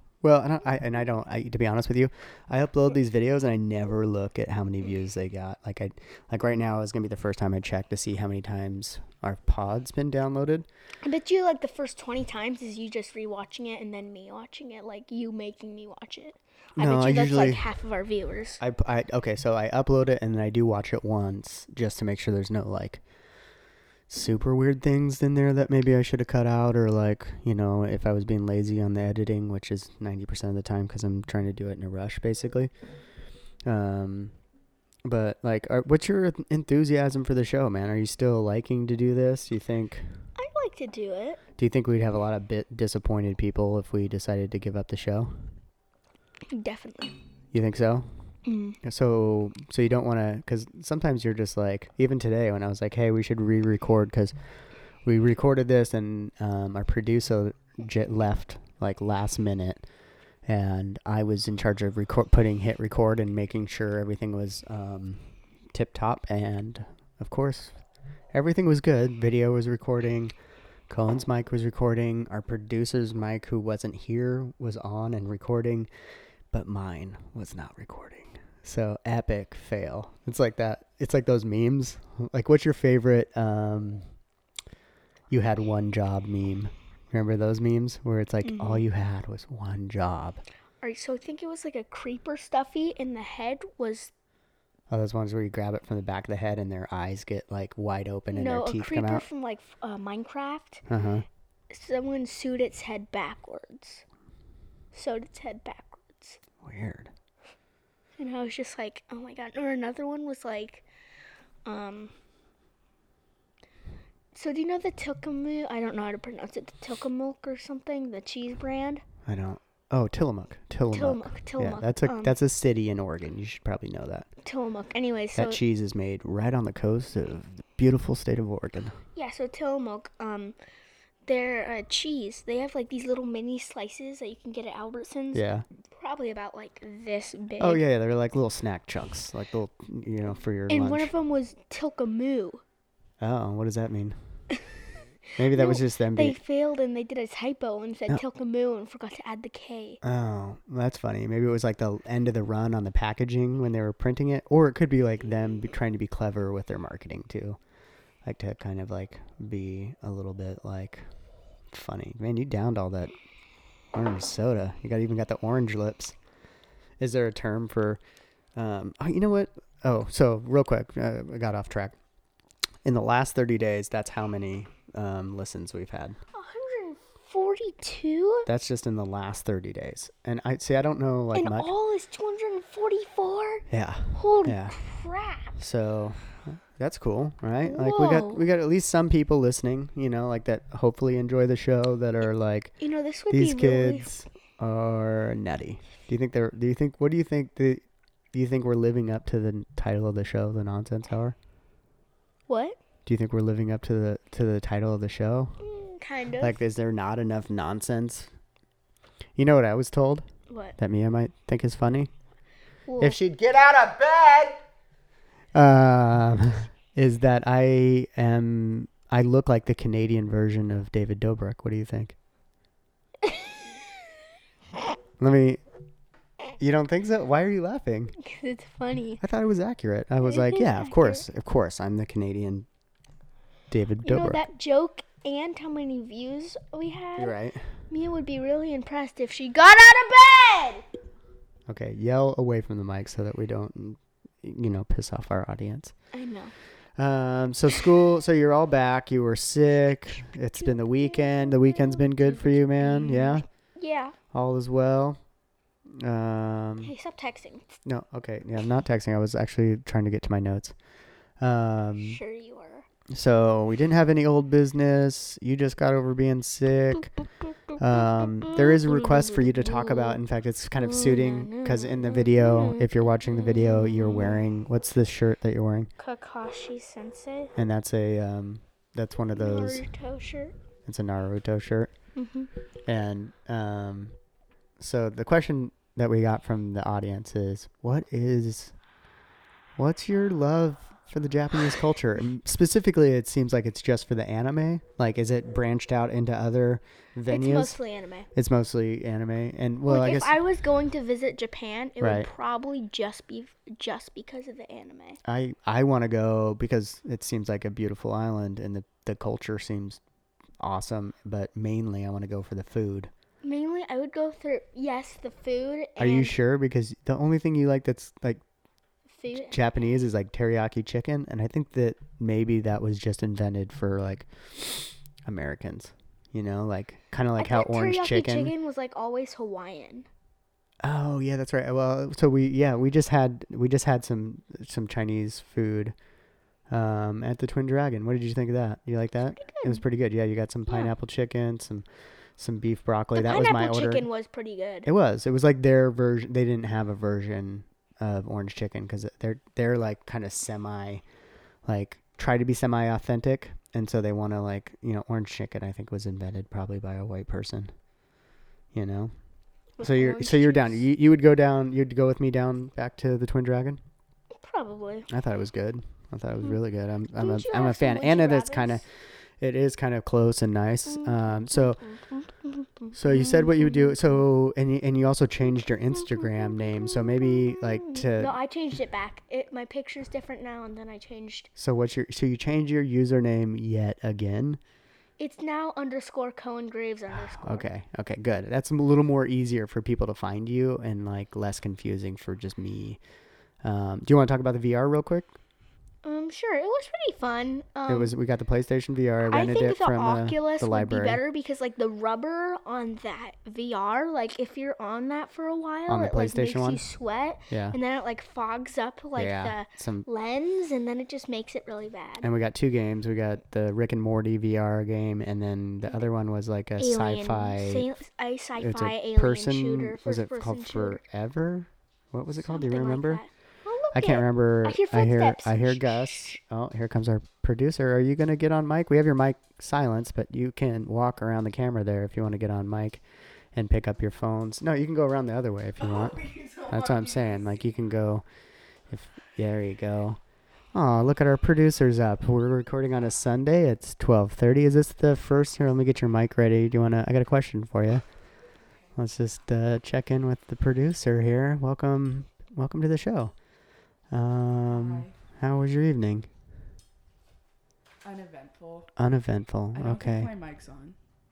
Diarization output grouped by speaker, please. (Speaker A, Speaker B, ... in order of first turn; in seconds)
Speaker A: 0.2-10.7, 16.8-17.7, 18.6-23.0, 24.1-32.7, 33.7-34.4, 35.0-40.0, 41.6-45.4, 47.5-48.1, 48.8-54.4, 55.0-59.9, 60.5-67.8, 68.3-70.3, 70.9-75.9, 76.5-84.0, 85.3-90.4, 94.9-99.2, 100.9-101.3, 106.6-107.1, 119.2-124.3, 125.3-129.0, 135.3-135.7, 137.6-141.1, 143.2-144.2, 145.4-146.4, 150.0-157.6, 158.2-161.1, 161.7-163.1, 163.9-166.2, 167.0-168.0, 168.6-172.0, 172.8-176.2, 178.4-181.7, 183.7-184.8, 185.6-192.8, 193.3-201.3, 203.1-205.6, 206.4-208.3, 209.3-210.3, 210.8-212.1, 213.0-214.6, 215.5-222.2, 225.2-225.6, 226.6-228.1, 229.2-232.7, 233.7-234.4, 237.2-237.7, 241.7-245.9, 247.0-253.4, 254.3-255.2, 255.9-256.9, 257.8-260.8, 261.4-262.2, 263.1-267.1, 267.8-275.9, 277.6-279.8, 280.9-281.9, 282.9-284.1, 284.8-288.7, 289.8-297.8, 298.3-300.3, 302.0-302.3, 305.2-310.0, 310.6-313.1, 316.0-318.4, 319.4-328.5, 330.8-335.9, 336.7-341.9, 342.4-344.1, 344.9-351.0, 351.6-357.7, 358.7-359.1, 359.8-363.8, 365.1-368.9, 369.4-371.8, 372.9-378.3, 381.6-384.6, 387.1-393.0, 393.6-395.3, 397.9-401.2, 405.9-406.8, 407.5-407.8, 409.2-410.1, 412.2-417.9, 418.6-423.2, 423.9-433.0, 433.5-438.3, 438.9-440.2, 440.7-448.1, 448.9-453.3, 454.1-456.3, 459.0-460.3
Speaker B: 11.0-18.6, 40.4-41.4, 46.5-47.1, 48.4-48.8, 88.4-88.8, 90.8-94.1, 98.3-100.8, 101.7-104.0, 104.9-106.4, 108.2-110.8, 111.7-112.1, 114.3-119.0, 120.9-122.3, 124.4-125.6, 129.2-130.6, 131.3-137.8, 140.7-142.6, 145.4-150.0, 176.3-178.5, 181.3-185.6, 187.7-188.4, 192.8-194.1, 202.5-202.8, 205.6-206.6, 210.5-210.8, 212.9-213.2, 228.2-229.2, 230.2-231.2, 234.0-237.3, 237.9-240.8, 246.1-246.5, 250.6-254.2, 256.8-257.8, 262.0-262.9, 268.0-270.2, 270.8-274.4, 276.0-277.5, 279.3-280.5, 282.2-282.5, 297.3-298.3, 299.9-305.2, 313.4-316.3, 319.1-319.6, 327.4-330.1, 339.3-339.8, 340.7-340.9, 343.1-344.9, 359.8-360.8, 364.4-365.1, 367.2-368.8, 370.9-374.1, 376.2-381.5, 385.2-387.7, 396.0-398.1, 399.2-412.3, 416.8-421.0, 422.4-426.4
Speaker C: 435.9-437.4, 454.7-455.1, 458.0-458.9, 459.7-460.9